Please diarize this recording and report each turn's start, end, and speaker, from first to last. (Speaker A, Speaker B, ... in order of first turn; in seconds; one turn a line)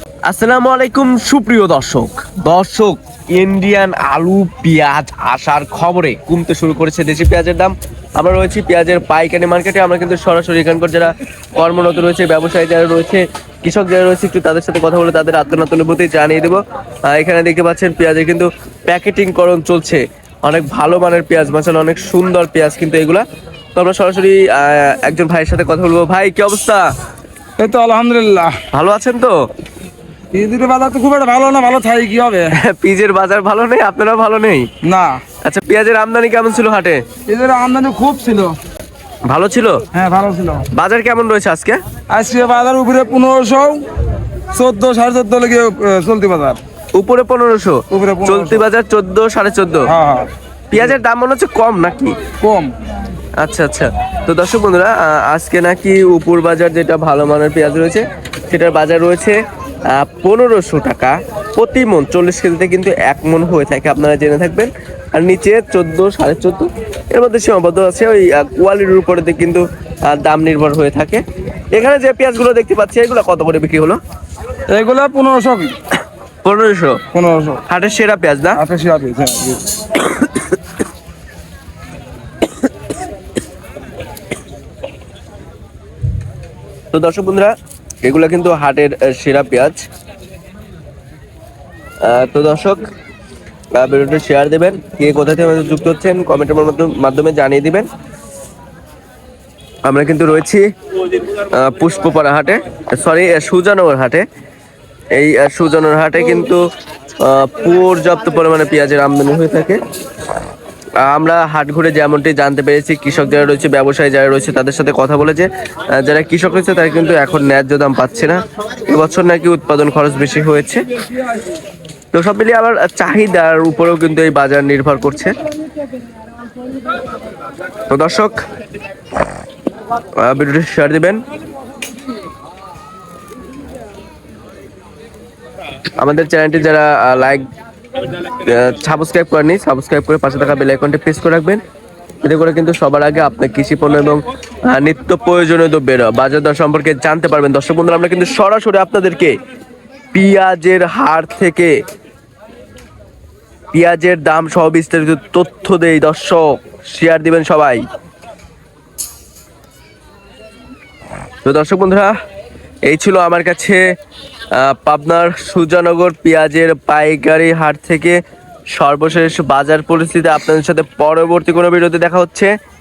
Speaker A: 0.2-23.2
Speaker A: 23.8-26.9
Speaker B: 27.6-28.6
Speaker A: 28.7-29.4
Speaker B: 30.3-32.5
Speaker A: 32.5-34.7
Speaker B: 34.8-35.2
Speaker A: 35.4-37.0
Speaker B: 37.3-38.5
Speaker A: 39.3-39.8
Speaker B: 39.9-40.7
Speaker A: 40.7-41.8
Speaker B: 42.1-43.8
Speaker B: 44.5-46.6
Speaker A: 46.9-49.9
Speaker B: 47.9-48.6
Speaker B: 49.9-50.3
Speaker A: 50.7-52.1
Speaker B: 52.4-52.7
Speaker A: 53.4-71.2
Speaker A: 71.7-74.0
Speaker B: 74.7-75.8
Speaker A: 76.4-77.0
Speaker B: 77.1-77.6
Speaker A: 77.7-78.6
Speaker B: 78.5-79.7
Speaker A: 80.0-80.4
Speaker A: 86.9-89.8
Speaker A: 92.0-92.8
Speaker A: 93.7-97.9
Speaker A: 99.8-100.6
Speaker A: 101.2-104.2
Speaker A: 105.1-106.6
Speaker A: 107.2-109.8
Speaker A: 111.0-120.8
Speaker A: 122.1-125.3
Speaker A: 127.9-128.4
Speaker A: 130.2-131.2
Speaker A: 136.0-137.4
Speaker A: 138.3-141.6
Speaker A: 142.2-149.3
Speaker A: 150.1-151.8
Speaker A: 153.7-157.8
Speaker A: 161.4-162.1
Speaker A: 162.8-163.8
Speaker A: 164.6-168.2
Speaker A: 168.7-172.5